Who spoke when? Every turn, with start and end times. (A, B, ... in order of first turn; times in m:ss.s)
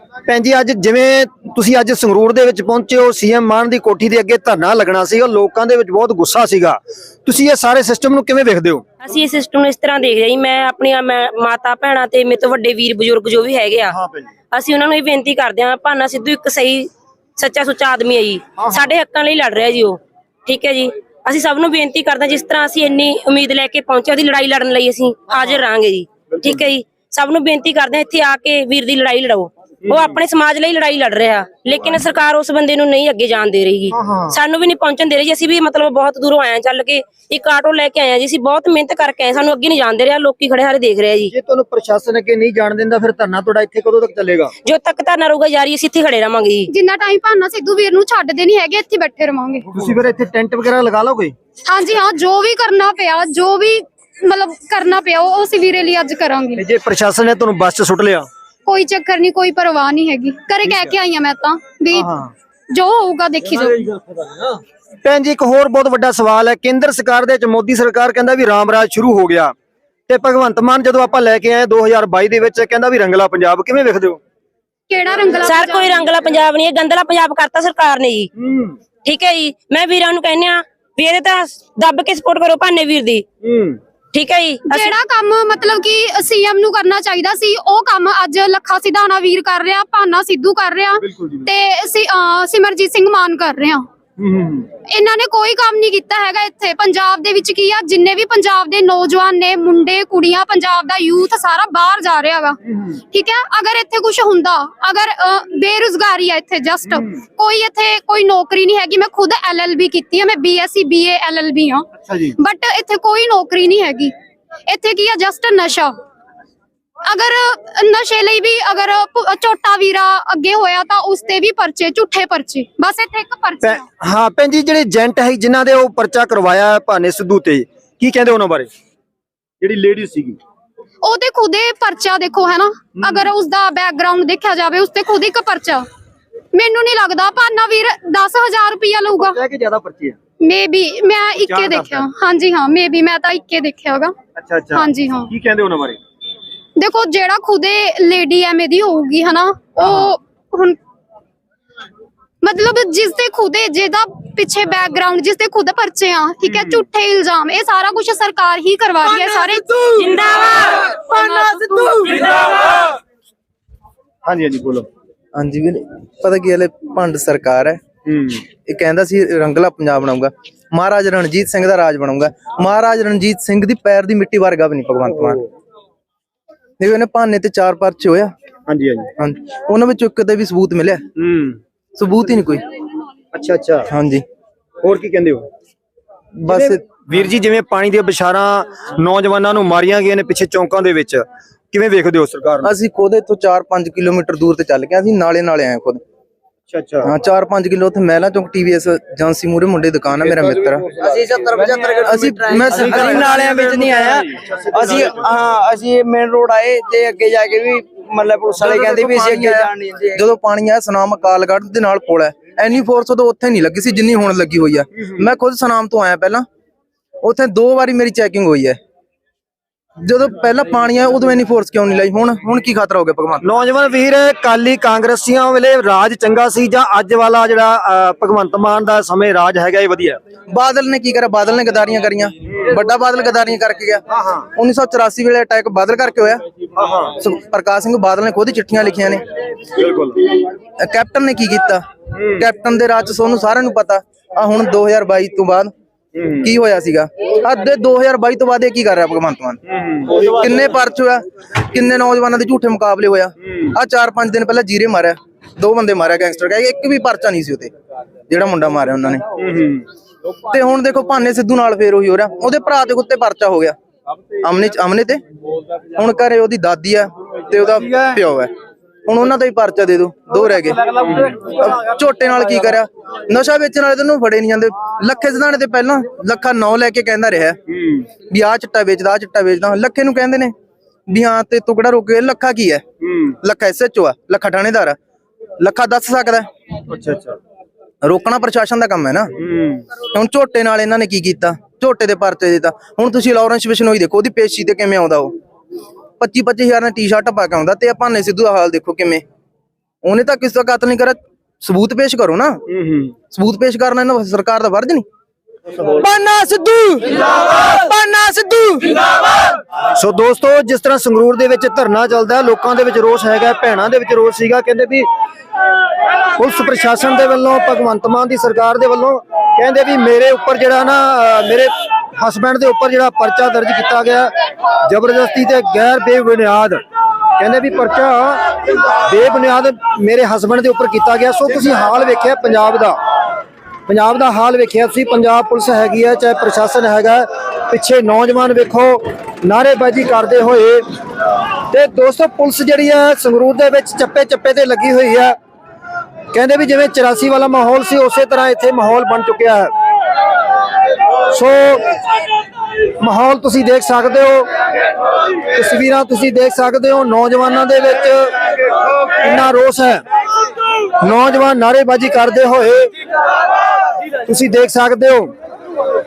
0:00.3-0:08.8 A
0:09.0-0:14.0 B
0:13.9-0:14.3 A
0:14.5-0:41.3 B
0:18.6-0:18.9 A
0:25.3-0:25.6 A
0:29.9-0:30.2 A
0:33.9-0:34.4 A
0:41.3-0:44.5 A
0:44.6-0:46.7 B
0:46.7-0:49.7 C
0:49.7-0:51.3 A
0:51.6-0:56.6 C
0:56.6-0:58.3 A
0:58.6-1:02.1 C
1:00.6-1:00.9 A
1:01.9-1:02.3 A
1:02.7-1:04.1 C
1:05.0-1:09.5 A
1:10.1-1:14.2 A
1:14.9-1:16.0 C
1:15.4-1:18.3 B
1:18.4-1:18.8 A
1:19.0-1:23.2 B
1:23.4-1:23.8 A
1:24.1-1:24.9 B
1:24.7-1:33.9 C
1:31.0-1:31.5 A
1:34.2-1:34.7 A
1:34.9-1:54.1 C
1:42.7-1:43.0 A
1:52.0-1:52.4 A
1:54.7-1:56.0 C
1:57.1-2:03.8 C
2:03.6-2:08.7 A
2:09.6-2:10.4 A
2:11.0-2:15.9 C
2:13.0-2:13.3 A
2:16.5-2:19.4 C
2:19.1-2:20.2 A
2:20.4-2:24.2 C
2:21.4-2:22.1 A
2:24.4-2:26.0 A
2:24.7-2:25.3 C
2:26.8-2:30.8 C
2:29.8-2:30.1 A
2:32.4-2:39.7 C
2:36.4-2:36.8 A
2:39.9-2:42.8 B
2:41.1-2:42.0 C
2:44.2-2:44.9 A
2:45.3-2:47.8 D
2:48.1-2:48.4 A
2:48.6-2:55.4 D
2:56.8-2:58.3 D
2:58.7-2:59.1 A
2:59.2-3:01.0 D
3:01.2-3:01.6 A
3:02.0-3:02.6 D
3:03.3-3:03.9 A
3:03.9-3:04.2 D
3:04.8-3:05.5 A
3:06.4-3:06.8 D
3:06.5-3:12.7 A
3:12.6-3:16.0 D
3:16.7-3:17.1 A
3:17.0-3:20.9 D
3:20.5-3:30.2 E
3:22.0-3:23.4 D
3:22.5-3:25.2 A
3:28.6-3:36.4 D
3:37.2-3:38.8 D
3:40.0-3:43.5 D
3:43.4-3:50.2 A
3:50.5-3:54.0 D
3:54.1-3:54.5 A
3:54.6-3:56.4 D
3:56.8-3:57.2 A
3:57.2-3:59.2 D
3:59.7-4:00.3 A
4:00.8-4:01.8 D
4:02.2-4:02.4 A
4:02.4-4:05.7 D
4:06.2-4:06.5 A
4:06.4-4:09.6 D
4:09.7-4:10.2 A
4:10.2-4:17.7 D
4:18.3-4:19.2 D
4:19.4-4:19.8 A
4:20.5-4:23.8 D
4:24.4-4:25.2 D
4:26.0-4:28.5 D
4:29.1-4:37.6 D
4:31.0-4:31.4 A
4:37.7-4:38.1 A
4:38.3-4:40.5 D
4:41.1-4:42.8 D
4:43.0-4:43.4 A
4:43.4-4:45.0 D
4:45.6-4:46.5 D
4:46.9-4:47.4 A
4:48.0-4:49.3 D
4:49.4-4:49.8 A
4:50.1-4:55.3 D
4:56.2-4:59.2 D
5:00.0-5:02.6 D
5:02.7-5:03.2 A
5:03.3-5:05.0 D
5:06.0-5:09.0 D
5:10.0-5:15.1 A
5:16.4-5:24.3 A
5:24.8-5:26.8 A
5:27.4-5:28.4 A
5:28.9-5:33.0 A
5:33.9-5:40.8 A
5:41.7-5:45.4 A
5:46.3-5:49.7 A
5:51.3-5:51.9 A
5:53.0-5:54.5 A
5:55.5-6:00.0 A
6:01.0-6:02.9 A
6:04.3-6:05.3 A